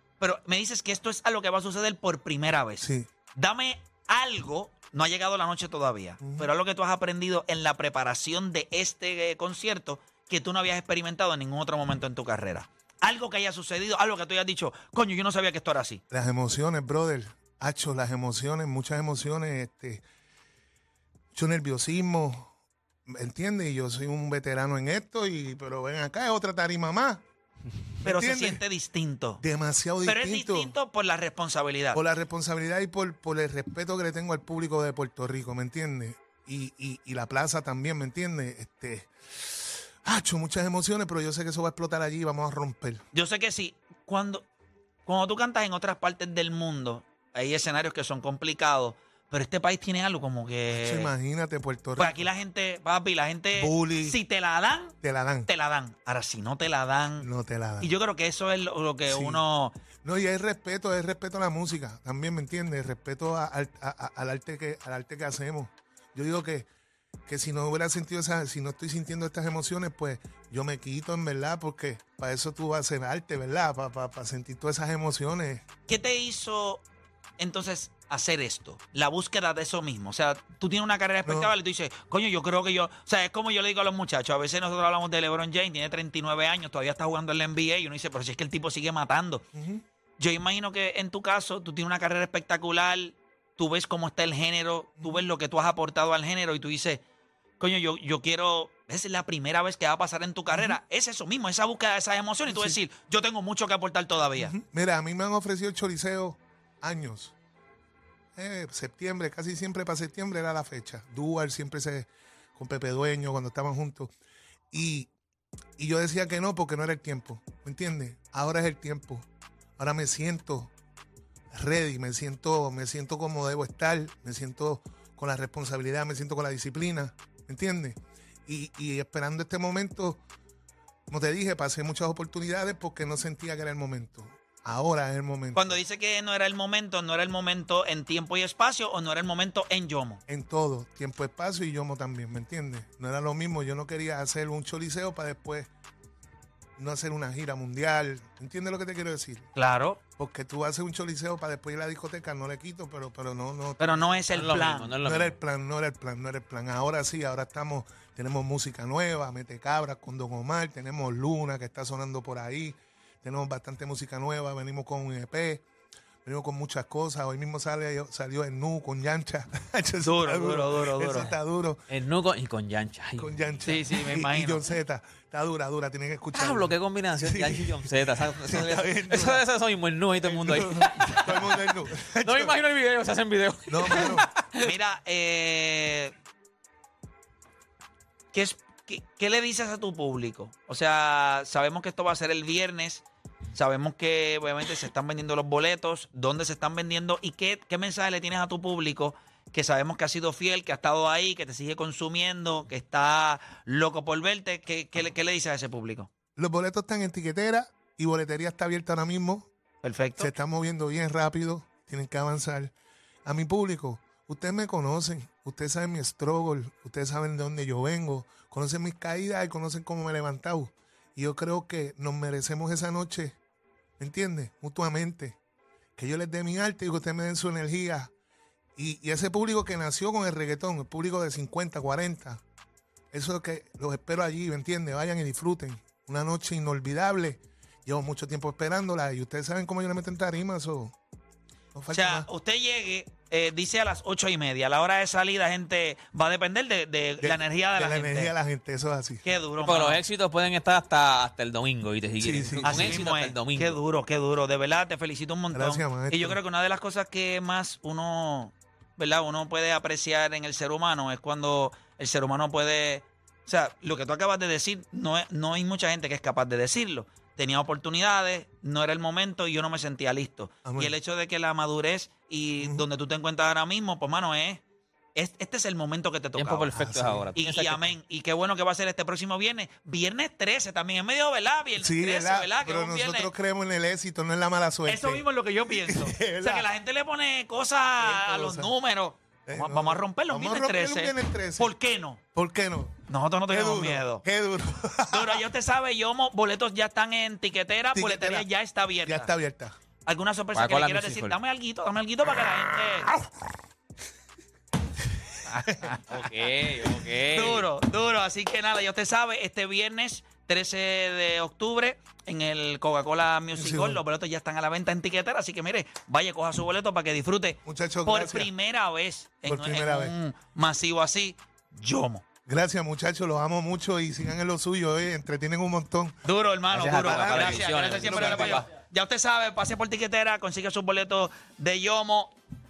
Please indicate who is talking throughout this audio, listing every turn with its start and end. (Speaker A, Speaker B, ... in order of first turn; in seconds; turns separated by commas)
Speaker A: 0.2-16.0, Speaker B: 2.8-3.1, Speaker B: 6.2-6.5, Speaker B: 16.1-20.1, Speaker B: 21.3-22.5, Speaker B: 23.1-27.2, Speaker B: 28.0-28.6, Speaker A: 28.0-29.4, Speaker B: 29.4-30.7, Speaker A: 30.0-32.0, Speaker B: 31.9-43.0, Speaker A: 43.1-44.5, Speaker A: 45.1-51.1, Speaker B: 50.7-52.3, Speaker A: 52.0-55.0, Speaker B: 53.5-54.2, Speaker B: 55.0-55.5, Speaker A: 55.5-57.3, Speaker B: 57.2-57.9, Speaker A: 57.8-59.7, Speaker B: 59.1-59.4, Speaker B: 60.0-66.7, Speaker B: 67.3-75.7, Speaker A: 75.9-76.8, Speaker A: 77.4-89.5, Speaker B: 81.2-81.5, Speaker B: 89.5-89.8, Speaker A: 90.2-97.0, Speaker A: 97.6-104.5, Speaker B: 100.5-100.8, Speaker B: 102.5-102.8, Speaker B: 104.3-107.3, Speaker B: 108.3-114.1, Speaker B: 114.7-115.1, Speaker B: 115.8-119.3, Speaker B: 119.8-120.7, Speaker B: 121.5-130.2, Speaker B: 131.1-135.8, Speaker A: 135.6-140.2, Speaker B: 140.3-145.7, Speaker B: 146.8-149.5, Speaker A: 149.6-150.0, Speaker B: 150.2-165.7, Speaker A: 153.8-154.9, Speaker C: 154.3-155.4, Speaker B: 166.2-171.8, Speaker A: 170.0-171.3, Speaker C: 171.9-173.3, Speaker B: 173.2-177.8, Speaker A: 173.7-174.6, Speaker C: 176.3-181.4, Speaker B: 178.4-179.5, Speaker B: 180.2-182.6, Speaker C: 182.2-184.7, Speaker B: 183.7-184.3, Speaker A: 184.6-186.1, Speaker A: 188.3-206.1, Speaker B: 206.4-209.5, Speaker A: 209.8-210.3, Speaker B: 210.2-212.7, Speaker B: 213.2-223.4, Speaker B: 224.0-225.4, Speaker B: 226.0-228.1, Speaker B: 228.8-232.4, Speaker B: 233.1-240.9, Speaker B: 241.7-242.3, Speaker A: 241.9-248.3, Speaker B: 247.2-249.2, Speaker A: 249.2-250.0, Speaker C: 249.6-253.8, Speaker B: 252.2-253.0, Speaker A: 252.6-274.6, Speaker B: 255.5-256.4, Speaker B: 270.6-270.9, Speaker B: 272.6-272.9, Speaker A: 275.1-276.8, Speaker C: 276.4-277.9, Speaker B: 276.7-277.3, Speaker A: 277.4-283.3, Speaker B: 281.8-286.7, Speaker A: 284.9-292.2, Speaker B: 288.0-288.7, Speaker B: 289.4-291.7, Speaker B: 292.4-295.4, Speaker A: 293.1-294.2, Speaker A: 295.1-299.3, Speaker B: 297.9-298.5, Speaker B: 299.0-299.8, Speaker A: 300.1-303.1, Speaker C: 300.5-301.4, Speaker A: 305.5-306.1, Speaker C: 306.1-307.7, Speaker A: 307.2-322.2, Speaker B: 313.5-314.0, Speaker B: 317.6-318.5, Speaker B: 319.4-320.1, Speaker B: 322.5-326.2, Speaker A: 326.2-332.3, Speaker C: 326.7-328.7, Speaker B: 326.7-328.7